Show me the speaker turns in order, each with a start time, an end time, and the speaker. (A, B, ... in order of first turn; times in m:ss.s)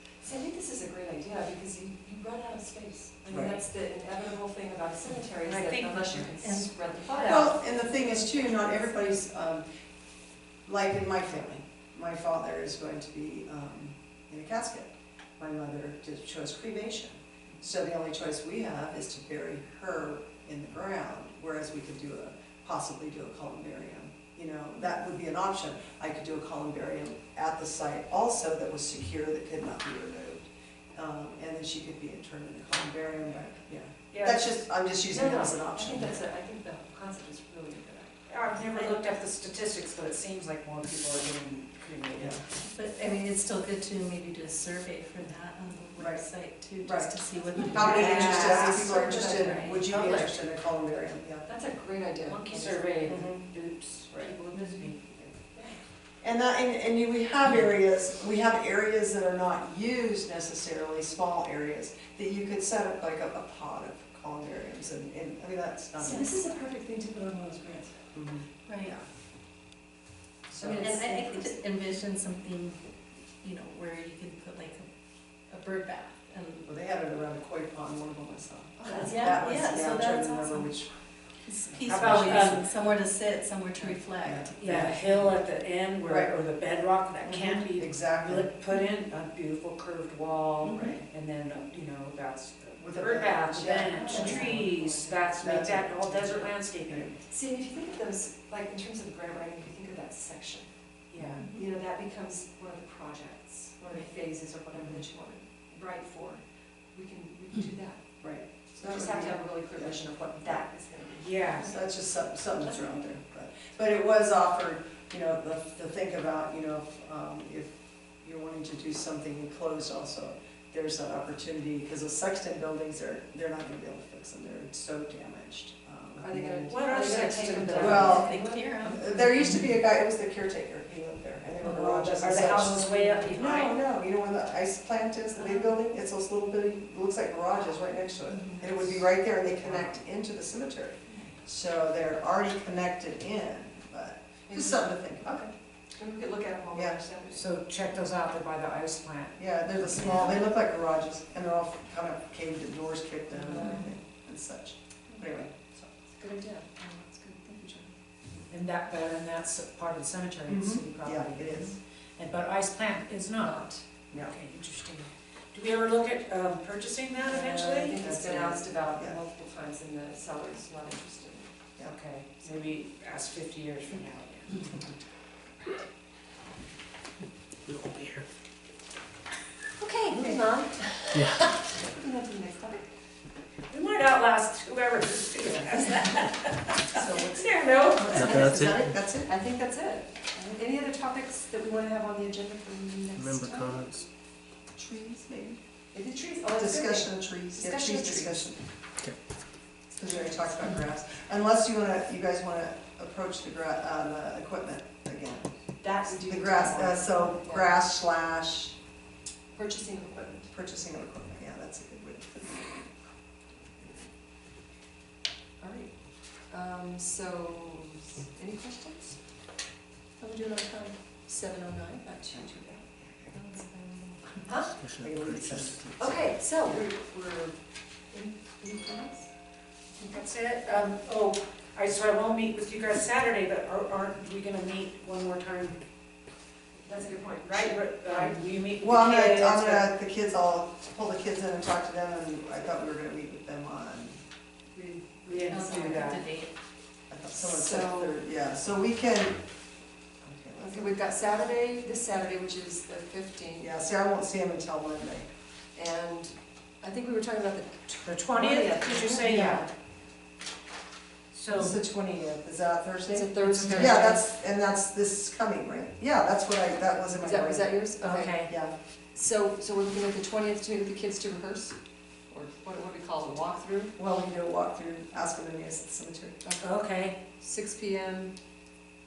0:00.2-0:08.8 A
0:03.3-0:03.6 B
0:05.4-0:06.3 C
0:06.4-0:07.5 D
0:07.2-0:09.6 B
0:10.6-0:36.2 B
0:34.1-0:34.5 C
0:35.0-0:38.2 A
0:38.3-0:42.4 C
0:42.6-0:49.2 D
0:46.0-0:46.2 B
0:46.8-0:51.4 B
0:47.7-0:50.3 C
0:47.9-0:50.3 A
0:51.4-0:53.0 A
0:52.3-0:55.0 C
0:53.0-0:53.4 B
0:54.2-0:55.7 A
0:56.2-1:06.3 B
1:06.0-1:08.1 A
1:08.1-1:09.0 B
1:08.6-1:08.9 D
1:10.5-1:11.1 B
1:10.6-1:11.5 A
1:10.6-1:12.8 D
1:13.4-1:14.9 D
1:15.5-1:16.7 D
1:16.6-1:20.9 B
1:18.8-1:19.5 A
1:19.0-1:20.7 D
1:21.4-1:25.1 D
1:21.7-1:22.6 B
1:21.8-1:22.6 C
1:24.2-1:25.0 B
1:24.6-1:37.2 C
1:26.0-1:26.3 B
1:27.2-1:28.5 B
1:30.7-1:31.0 B
1:32.8-1:37.1 B
1:33.9-1:34.8 A
1:37.3-1:40.7 A
1:41.1-1:41.5 C
1:41.2-1:41.5 B
1:41.5-1:48.0 A
1:44.8-1:45.0 B
1:48.2-1:49.9 B
1:48.7-1:51.8 A
1:51.2-1:51.7 C
1:51.6-2:06.7 B
1:52.6-1:53.1 A
2:06.2-2:08.7 A
2:06.6-2:08.2 C
2:07.7-2:25.4 B
2:07.8-2:09.3 D
2:11.6-2:13.8 C
2:12.2-2:13.3 D
2:13.3-2:13.6 A
2:15.4-2:15.7 A
2:18.3-2:18.7 D
2:21.1-2:21.4 A
2:24.5-2:27.5 A
2:26.7-2:27.0 B
2:27.3-2:29.4 C
2:29.4-2:35.5 B
2:33.3-2:34.0 A
2:35.8-2:37.9 A
2:38.5-2:48.0 C
2:40.5-2:41.8 B
2:43.4-2:43.8 A
2:47.1-2:51.5 A
2:48.0-2:49.2 B
2:51.8-2:54.8 C
2:57.7-2:58.2 C
2:59.8-3:02.8 A
3:01.1-3:01.4 E
3:03.7-3:08.5 C
3:06.9-3:07.4 B
3:08.0-3:09.3 B
3:08.1-3:09.0 E
3:08.6-3:08.9 D
3:09.1-3:13.9 A
3:13.2-3:14.0 E
3:14.8-3:15.3 A
3:15.1-3:15.6 B
3:15.9-3:18.5 A
3:16.5-3:18.6 B
3:19.9-3:25.5 B
3:25.8-3:27.7 A
3:26.0-3:28.7 B
3:29.5-3:30.5 A
3:30.5-3:32.8 B
3:35.6-3:35.9 A
3:36.5-3:39.2 A
3:40.2-3:44.8 A
3:44.8-3:46.2 E
3:45.0-3:45.8 B
3:46.0-3:47.6 A
3:48.1-3:49.3 A
3:50.0-3:50.2 A
3:50.1-3:55.8 C
3:56.8-3:58.4 A
3:57.4-3:59.9 C
3:58.8-4:04.2 B
4:04.7-4:06.2 A
4:05.2-4:06.3 C
4:05.5-4:06.5 D
4:07.1-4:09.4 B
4:07.3-4:08.2 A
4:10.2-4:11.1 B
4:10.6-4:13.7 A
4:13.6-4:15.3 B
4:15.7-4:19.6 A
4:18.0-4:19.7 C
4:19.2-4:19.7 B
4:21.3-4:21.8 C
4:21.5-4:28.7 B
4:23.1-4:24.2 A
4:23.4-4:24.2 C
4:27.1-4:28.4 A
4:28.0-4:28.5 C
4:29.1-4:31.8 A
4:32.3-4:33.9 A
4:34.0-4:36.4 B
4:36.4-4:36.7 A
4:36.6-4:37.2 C
4:37.4-4:38.3 A